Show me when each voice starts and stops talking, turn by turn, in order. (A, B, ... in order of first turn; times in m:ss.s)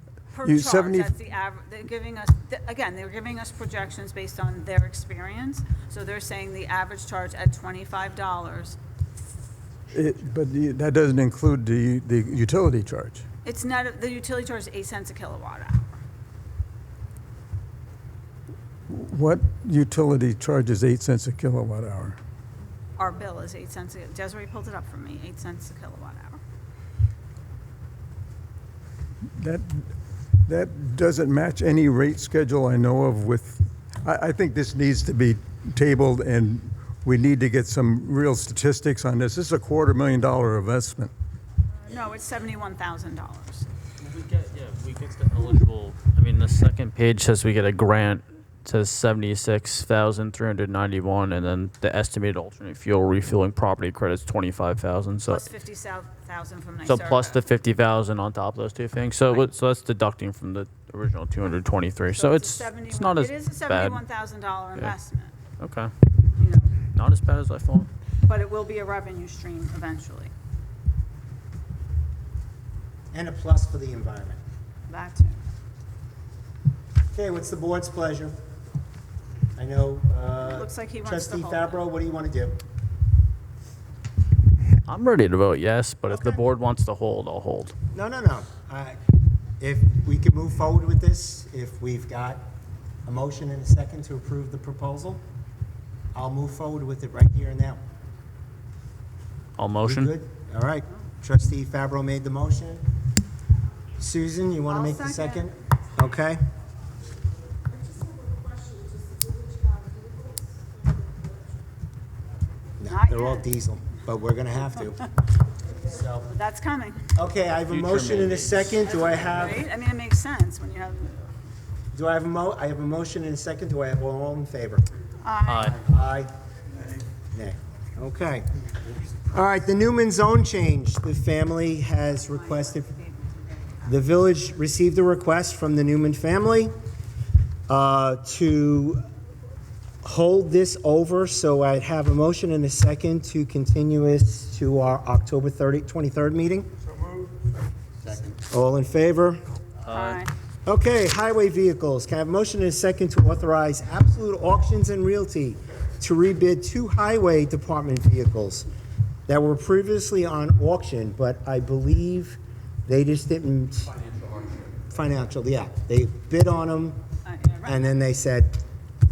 0:00.3-0:08.8 A
0:00.4-0:01.1 B
0:09.9-0:13.2 B
0:13.4-0:15.8 A
0:18.9-0:22.2 B
0:23.0-0:26.4 A
0:29.4-0:29.9 B
0:30.4-0:41.1 B
0:41.8-0:43.7 A
0:44.0-0:55.5 C
0:55.3-0:57.5 A
0:56.8-1:04.0 C
1:02.1-1:05.3 A
1:05.6-1:05.9 C
1:06.4-1:06.8 A
1:06.9-1:07.9 C
1:08.2-1:10.3 A
1:13.1-1:14.4 D
1:14.9-1:15.4 A
1:17.1-1:18.4 D
1:19.6-1:22.6 D
1:20.4-1:21.8 A
1:24.9-1:27.7 C
1:26.1-1:26.4 A
1:27.9-1:29.0 D
1:29.6-1:32.4 D
1:33.0-1:35.2 D
1:36.1-1:37.8 D
1:39.6-1:40.1 C
1:39.8-1:42.8 D
1:44.0-1:46.4 D
1:44.7-1:45.5 A
1:52.8-1:55.0 D
1:52.9-1:53.4 A
1:55.8-1:56.3 D
1:56.2-1:57.1 A
1:57.1-1:59.6 D
1:57.7-1:59.3 C
1:59.0-2:01.2 A
2:01.9-2:04.9 D
2:05.2-2:05.7 A
2:05.4-2:05.8 C
2:05.7-2:06.3 D
2:07.3-2:08.4 D
2:09.2-2:12.9 D
2:12.1-2:13.9 A
2:13.8-2:16.7 D
2:17.7-2:19.0 D
2:20.0-2:26.7 D
2:28.4-2:29.4 D
2:29.8-2:30.2 C
2:29.9-2:30.3 A
2:30.6-2:38.7 D
2:39.3-2:47.0 D
2:47.2-2:47.8 A
2:47.6-2:48.6 D